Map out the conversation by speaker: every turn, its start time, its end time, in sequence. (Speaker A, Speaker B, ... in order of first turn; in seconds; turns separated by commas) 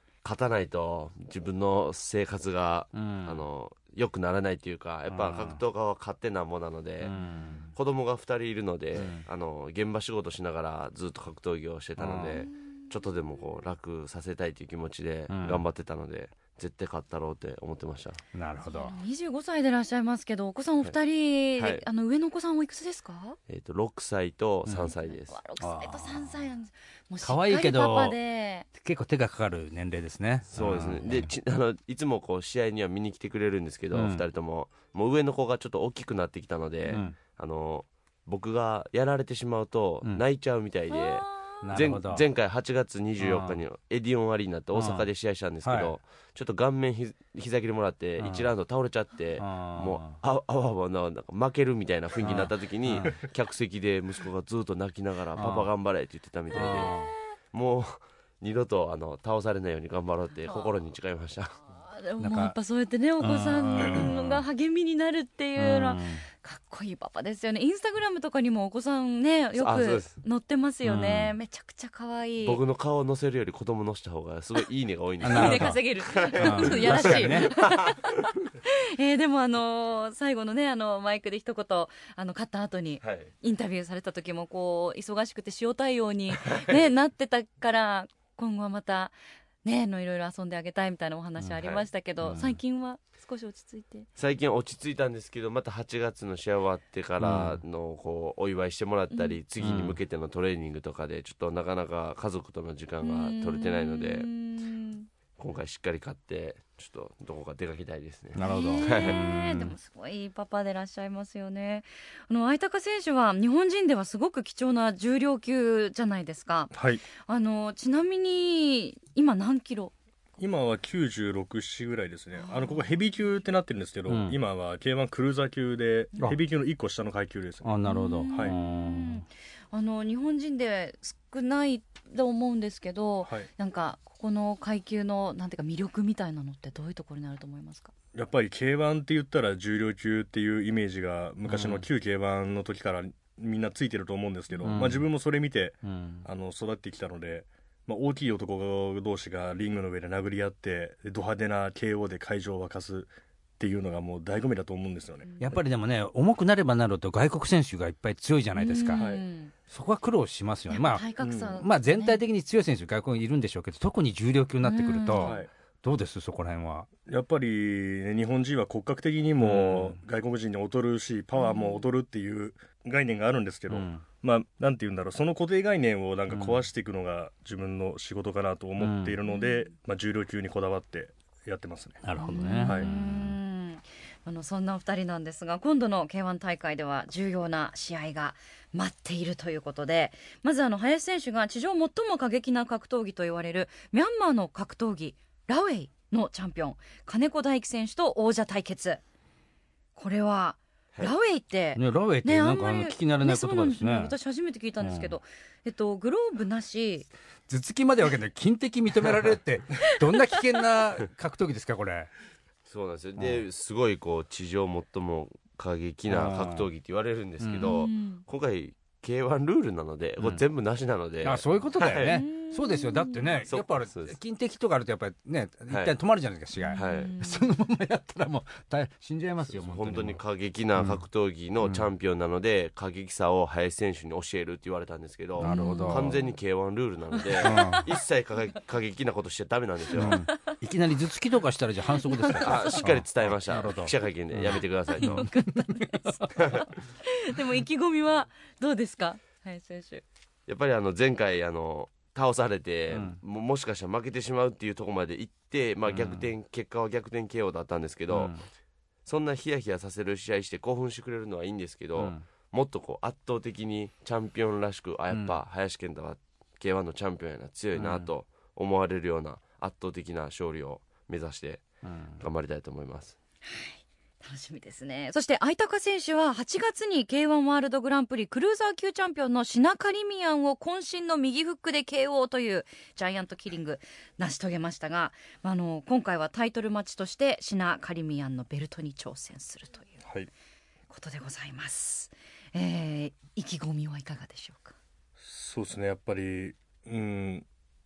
Speaker A: 0.2-7.2, Speaker B: 2.9-3.4, Speaker B: 5.1-5.6, Speaker B: 7.0-7.7, Speaker A: 7.7-18.2, Speaker B: 8.9-9.2, Speaker B: 12.0-12.5, Speaker B: 15.3-15.6, Speaker B: 18.3-19.0, Speaker C: 18.6-23.4, Speaker A: 21.6-21.8, Speaker A: 23.5-25.4, Speaker B: 24.7-24.9, Speaker C: 25.0-28.7, Speaker B: 25.6-26.4, Speaker B: 27.2-28.2, Speaker B: 28.8-31.3, Speaker A: 30.5-57.0, Speaker B: 33.9-34.2, Speaker B: 36.9-37.2, Speaker C: 40.9-41.5, Speaker B: 41.6-42.2, Speaker B: 43.2-43.6, Speaker B: 44.7-45.1, Speaker B: 45.6-46.0, Speaker B: 48.2-48.5, Speaker B: 49.4-50.2, Speaker B: 52.2-53.1, Speaker B: 55.3-55.7, Speaker B: 56.5-57.1, Speaker A: 57.5-61.6, Speaker C: 61.7-72.6, Speaker B: 62.2-62.6, Speaker B: 63.2-64.4, Speaker B: 65.6-66.2, Speaker A: 69.6-70.2, Speaker B: 70.8-71.4, Speaker A: 72.4-78.1, Speaker B: 75.2-77.5, Speaker C: 75.2-94.1, Speaker A: 83.0-83.3, Speaker A: 86.5-86.8, Speaker B: 92.2-92.6, Speaker A: 94.2-104.3, Speaker B: 97.2-97.6, Speaker C: 99.1-99.4, Speaker B: 99.6-100.0, Speaker C: 103.0-105.1, Speaker A: 105.4-109.2, Speaker B: 108.3-109.8, Speaker C: 108.4-119.9, Speaker D: 116.7-117.0, Speaker D: 120.4-127.8, Speaker C: 122.4-122.9, Speaker B: 124.1-124.4, Speaker B: 127.6-129.2, Speaker C: 127.8-137.9, Speaker D: 138.2-155.3, Speaker B: 141.5-141.9, Speaker C: 144.5-144.8, Speaker B: 144.7-145.1, Speaker B: 145.8-146.3, Speaker C: 155.2-155.6, Speaker B: 155.4-159.1, Speaker C: 158.6-159.5, Speaker D: 158.9-159.2, Speaker B: 159.7-166.9, Speaker C: 160.7-162.2, Speaker D: 161.2-161.6, Speaker C: 164.6-165.4, Speaker D: 165.2-165.5, Speaker D: 167.1-182.0, Speaker B: 169.4-170.0, Speaker C: 171.4-171.9, Speaker B: 173.7-174.0, Speaker B: 176.3-176.6, Speaker B: 178.8-179.2, Speaker C: 179.3-179.7, Speaker B: 182.0-183.3, Speaker C: 182.2-199.0, Speaker C: 200.0-207.1, Speaker B: 201.8-204.1, Speaker B: 204.8-205.1, Speaker B: 207.5-212.1, Speaker A: 212.7-222.2, Speaker B: 213.2-213.4, Speaker B: 216.1-216.7, Speaker B: 217.4-217.8, Speaker C: 217.6-218.2, Speaker B: 221.2-230.2, Speaker C: 222.1-223.4, Speaker A: 223.5-224.2, Speaker A: 225.7-225.9, Speaker C: 226.6-227.5, Speaker A: 226.8-227.1, Speaker A: 229.5-240.2, Speaker B: 230.8-231.0, Speaker B: 231.6-231.9, Speaker B: 235.4-236.2, Speaker C: 235.4-236.2, Speaker C: 237.2-237.9, Speaker B: 237.4-237.9, Speaker B: 240.0-246.1, Speaker C: 240.0-240.6, Speaker C: 241.9-243.0, Speaker A: 242.4-245.2, Speaker C: 244.8-250.0, Speaker A: 246.4-246.6, Speaker A: 250.5-258.4, Speaker B: 252.9-253.2, Speaker B: 255.9-256.3, Speaker B: 258.1-258.4, Speaker A: 259.1-271.7, Speaker B: 262.0-262.2, Speaker B: 265.1-265.4, Speaker B: 267.8-268.1, Speaker B: 271.8-272.2, Speaker A: 272.2-273.2, Speaker C: 273.4-290.0, Speaker C: 290.9-294.8, Speaker D: 295.2-297.4